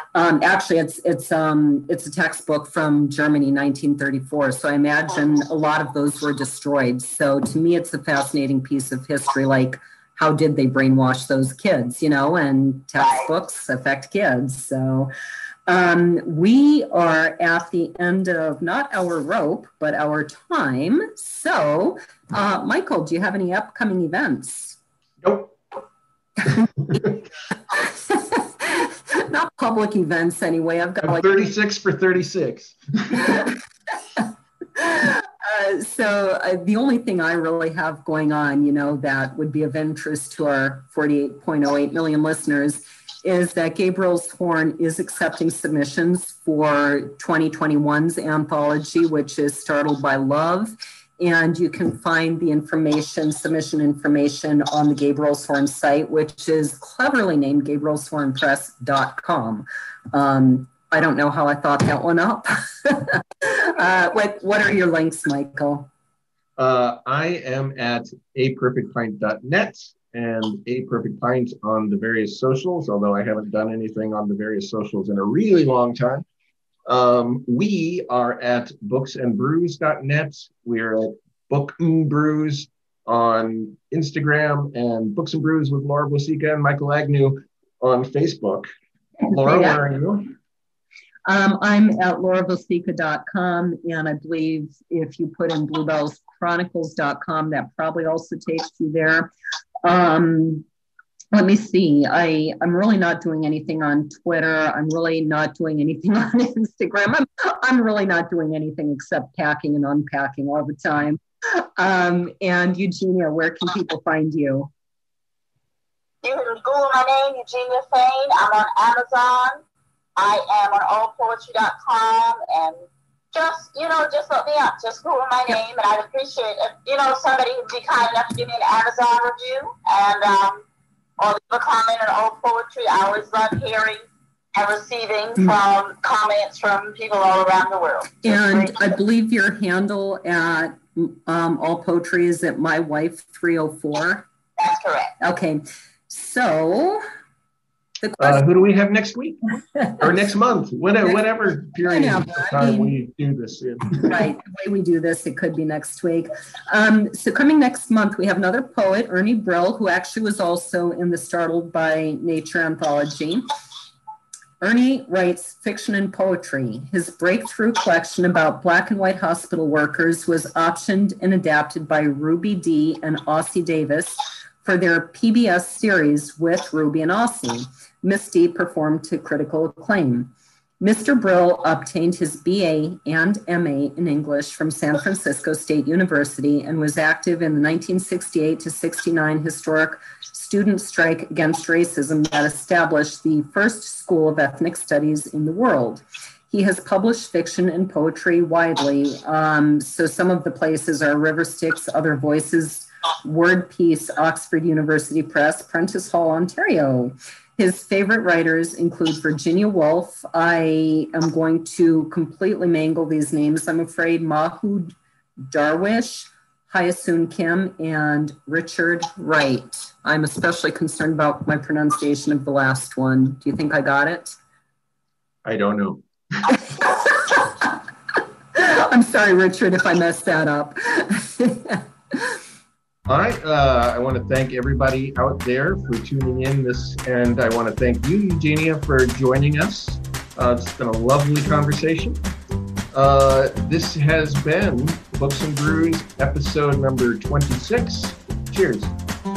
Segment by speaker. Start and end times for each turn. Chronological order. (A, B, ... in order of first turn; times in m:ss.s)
0:00.1-0:15.1 A
0:13.0-0:13.3 B
0:15.7-0:24.8 A
0:25.2-0:25.5 C
0:26.4-0:27.2 A
0:27.7-0:31.5 A
0:31.0-0:33.5 C
0:33.1-0:33.5 A
0:34.8-1:05.9 A
1:06.6-1:16.2 C
1:16.9-1:28.7 C
1:29.3-1:29.8 A
1:29.3-1:30.3 C
1:31.3-1:39.3 A
1:39.8-1:40.6 A
1:41.3-1:54.7 A
1:56.2-1:59.6 B
2:00.2-2:02.8 B
2:03.3-2:10.6 B
2:11.2-2:18.9 B
2:18.2-2:24.3 A
2:24.6-2:25.1 B
2:25.2-2:27.0 A
2:28.0-2:28.4 A
2:28.2-2:29.4 C
2:29.8-2:30.0 A
2:30.0-2:34.2 C
2:31.0-2:32.9 A
2:34.0-2:43.5 A
2:44.6-3:34.9 A
3:35.5-3:44.4 A
3:45.4-3:46.5 C
3:46.7-3:47.7 A
3:48.6-3:52.4 A
3:53.1-4:02.2 C
4:02.9-4:08.9 C